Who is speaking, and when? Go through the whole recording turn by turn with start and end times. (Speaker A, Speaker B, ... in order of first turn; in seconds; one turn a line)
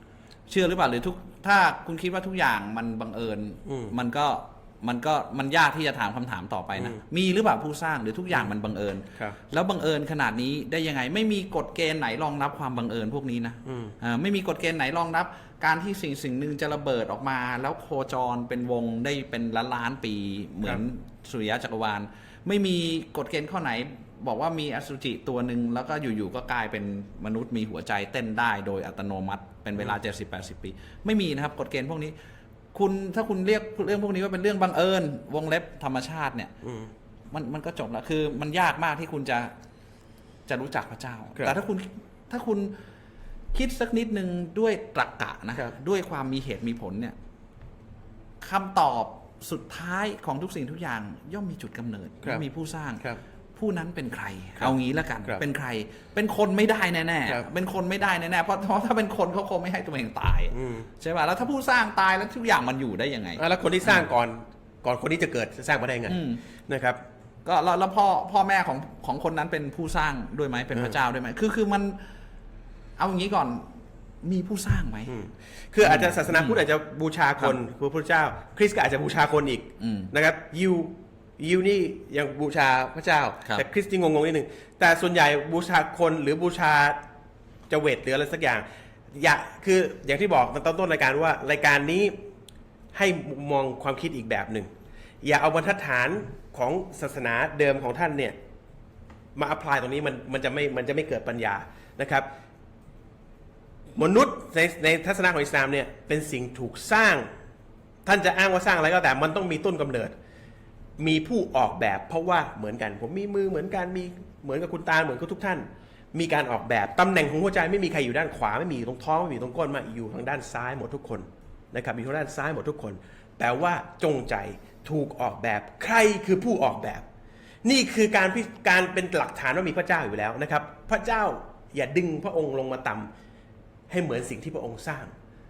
Speaker A: 0.5-32.1
Speaker B: 3.6-3.9
Speaker B: 13.7-13.9
Speaker A: 32.7-36.5
Speaker B: 36.6-36.9
Speaker A: 37.3-39.5
Speaker A: 40.5-42.7
Speaker A: 43.5-47.1
Speaker A: 48.4-64.1
Speaker B: 60.5-60.9
Speaker B: 63.4-67.0
Speaker A: 66.1-66.4
Speaker A: 67.4-72.0
Speaker A: 73.0-73.7
Speaker A: 74.2-75.1
Speaker B: 75.1-87.0
Speaker A: 75.8-76.6
Speaker A: 79.8-80.1
Speaker B: 87.7-92.1
Speaker B: 92.9-94.7
Speaker B: 95.2-98.3
Speaker B: 99.3-102.2
Speaker B: 104.0-107.2
Speaker B: 108.0-110.1
Speaker B: 111.0-127.0
Speaker B: 127.6-133.1
Speaker B: 133.9-135.1